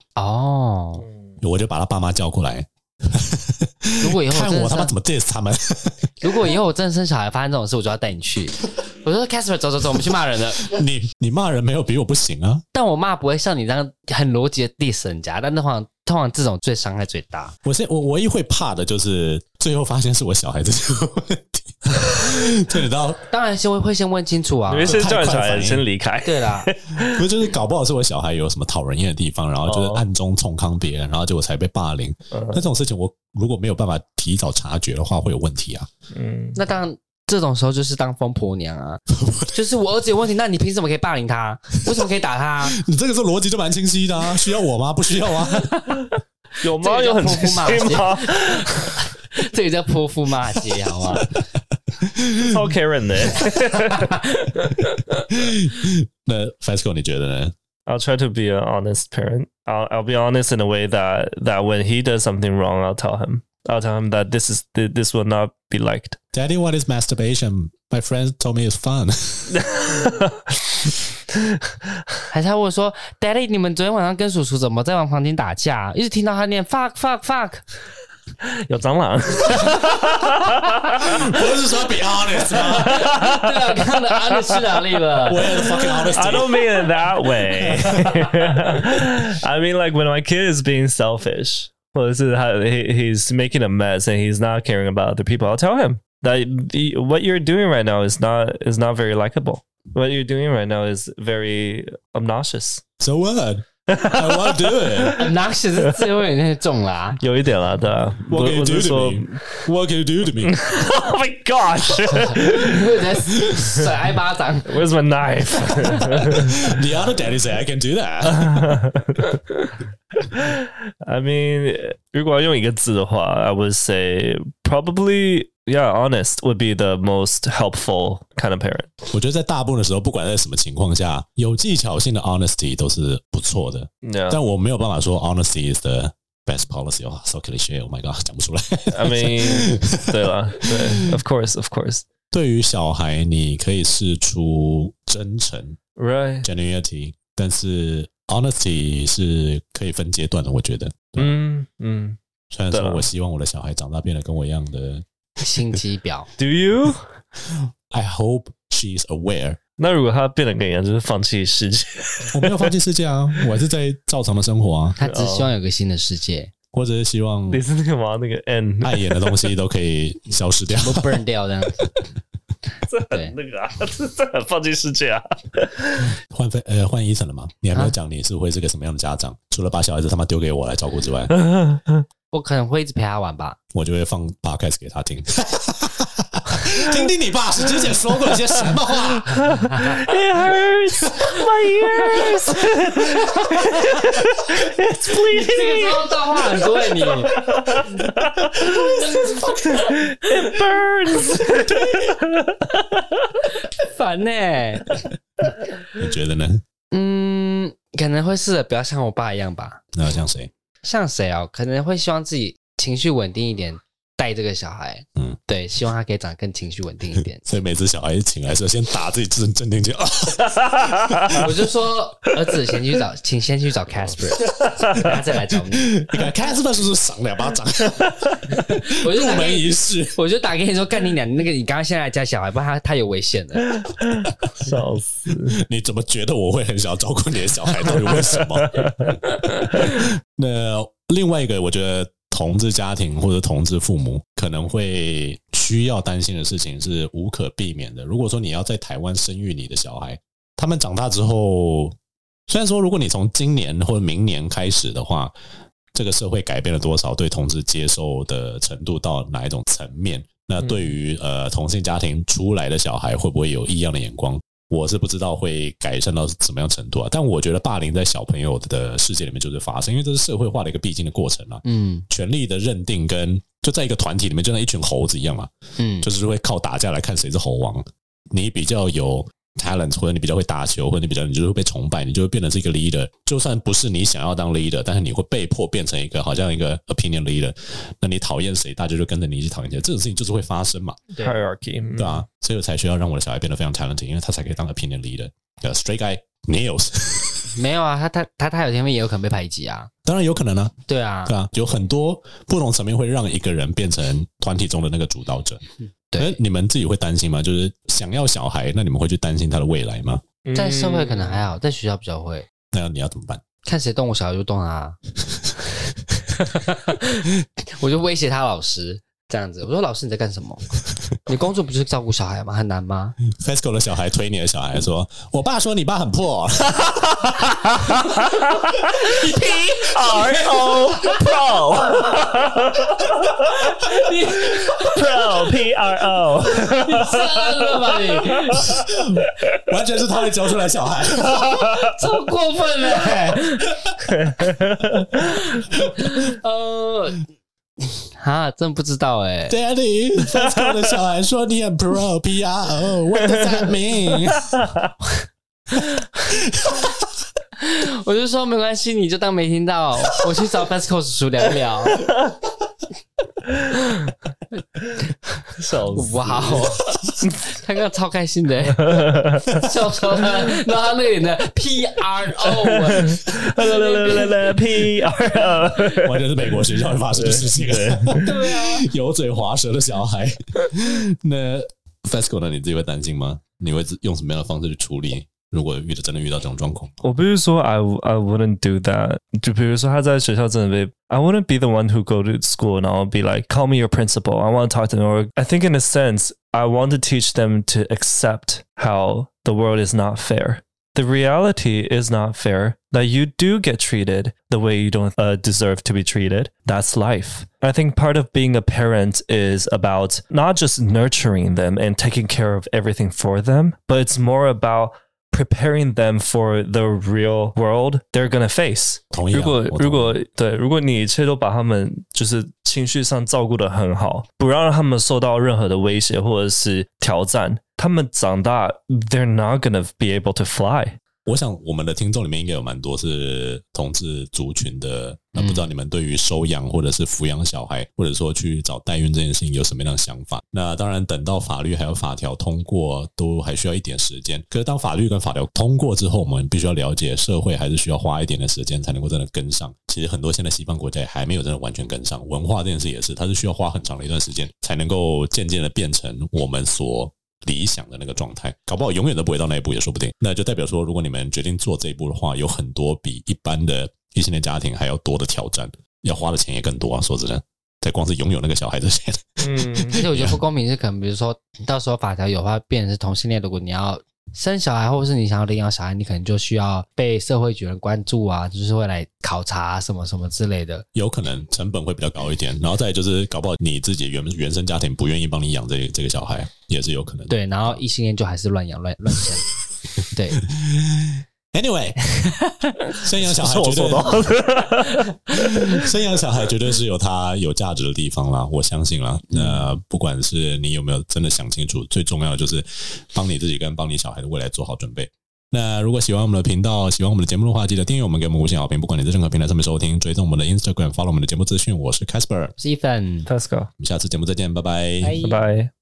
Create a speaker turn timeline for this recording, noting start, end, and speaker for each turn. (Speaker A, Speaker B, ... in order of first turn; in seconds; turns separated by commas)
Speaker A: 0.2-1.1, Speaker B: 1.0-1.4, Speaker C: 1.4-6.5, Speaker A: 4.0-4.9, Speaker A: 6.2-10.7, Speaker C: 10.6-12.6, Speaker A: 12.7-17.6, Speaker C: 17.6-23.2, Speaker A: 23.3-25.1, Speaker B: 24.7-27.2, Speaker C: 24.9-25.9, Speaker A: 26.2-26.7, Speaker C: 26.9-35.9, Speaker B: 29.7-30.1, Speaker B: 32.3-32.6, Speaker B: 36.1-36.6, Speaker A: 36.5-42.8, Speaker C: 39.1-39.5, Speaker C: 42.7-45.9, Speaker A: 45.5-46.0, Speaker B: 46.6-49.1, Speaker A: 46.6-51.4, Speaker C: 52.0-52.5, Speaker B: 52.4-54.2, Speaker A: 53.7-54.7, Speaker C: 54.7-57.5, Speaker B: 57.9-66.2, Speaker C: 66.3-69.6, Speaker B: 69.5-72.2, Speaker A: 72.3-77.6, Speaker B: 78.4-81.4, Speaker C: 81.0-83.1, Speaker B: 82.7-102.8, Speaker A: 82.8-85.6, Speaker C: 85.3-86.9, Speaker C: 87.6-88.3, Speaker C: 103.0-105.2, Speaker B: 103.9-106.1, Speaker A: 105.2-107.2, Speaker B: 107.2-109.4, Speaker C: 108.3-110.6, Speaker B: 110.4-113.0, Speaker A: 112.1-114.9, Speaker B: 113.6-113.9, Speaker B: 114.6-116.6, Speaker A: 115.7-116.1, Speaker C: 116.3-118.8, Speaker B: 118.3-128.9, Speaker C: 129.1-141.1, Speaker B: 134.0-134.4, Speaker B: 138.9-142.1, Speaker C: 142.3-145.8, Speaker B: 145.9-146.5, Speaker C: 146.4-151.3, Speaker B: 151.2-152.2, Speaker C: 152.5-155.1, Speaker B: 152.7-153.1, Speaker A: 155.4-156.3, Speaker B: 156.4-157.1, Speaker C: 157.6-159.6, Speaker B: 159.8-162.7, Speaker C: 162.3-165.0, Speaker A: 165.0-166.5, Speaker B: 165.0-165.5, Speaker C: 166.7-167.6, Speaker B: 167.5-169.6, Speaker C: 168.8-171.2, Speaker A: 170.7-171.9, Speaker B: 172.9-176.1, Speaker C: 176.3-181.4, Speaker B: 181.5-182.0, Speaker A: 182.3-183.6, Speaker C: 183.7-189.6, Speaker B: 189.4-203.5, Speaker A: 189.7-190.0, Speaker C: 191.0-191.4, Speaker C: 192.2-193.5, Speaker A: 195.3-197.4, Speaker A: 199.0-200.4, Speaker A: 203.8-205.0, Speaker C: 205.9-206.6, Speaker A: 206.9-209.8, Speaker C: 209.9-210.5, Speaker A: 210.8-217.4, Speaker C: 217.4-221.4, Speaker A: 221.3-226.1, Speaker B: 224.8-225.0, Speaker C: 225.7-230.2, Speaker A: 228.6-233.8, Speaker B: 233.8-235.6, Speaker C: 235.5-251.9, Speaker B: 237.8-239.1, Speaker C: 252.5-255.3, Speaker C: 255.9-275.5, Speaker A: 271.6-272.1, Speaker A: 275.8-276.1, Speaker C: 276.0-291.0, Speaker B: 291.2-292.2, Speaker C: 291.9-297.6, Speaker A: 297.6-299.9, Speaker C: 300.1-305.6, Speaker A: 300.9-301.3, Speaker A: 306.1-306.4, Speaker C: 306.2-310.2, Speaker B: 310.4-311.4, Speaker A: 310.5-312.5, Speaker C: 312.7-313.4, Speaker A: 313.6-315.0, Speaker A: 316.4-323.2, Speaker C: 323.3-328.7, Speaker B: 328.5-333.5, Speaker A: 329.1-331.3, Speaker A: 331.8-332.7, Speaker A: 333.5-335.4, Speaker B: 334.9-338.6, Speaker A: 336.5-338.8, Speaker C: 338.6-341.9, Speaker A: 341.3-343.9, Speaker C: 342.9-343.9, Speaker B: 344.1-345.3, Speaker A: 345.2-347.2, Speaker C: 345.7-346.2, Speaker A: 348.2-349.6, Speaker C: 349.5-354.6, Speaker B: 350.4-350.7, Speaker B: 353.3-353.6, Speaker B: 354.5-354.9, Speaker C: 356.3-357.1, Speaker A: 357.6-362.1, Speaker A: 365.4-374.7, Speaker B: 365.6-367.4, Speaker B: 368.8-369.7, Speaker B: 372.4-378.3, Speaker A: 375.4-375.9, Speaker C: 376.0-387.0, Speaker A: 378.2-378.9, Speaker B: 387.0-431.0, Speaker C: 419.1-420.2, Speaker C: 431.3-470.4, Speaker A: 435.4-435.7, Speaker B: 469.4-470.0, Speaker A: 470.0-480.9, Speaker C: 480.9-487.4, Speaker A: 487.3-489.5, Speaker A: 490.1-490.4, Speaker C: 490.4-492.1, Speaker A: 492.1-492.7, Speaker C: 492.9-494.4, Speaker B: 493.2-495.7, Speaker C: 495.4-512.5, Speaker A: 499.3-499.7, Speaker A: 512.6-513.3, Speaker B: 513.3-513.7, Speaker C: 513.8-515.2, Speaker A: 515.0-515.5, Speaker B: 515.2-515.7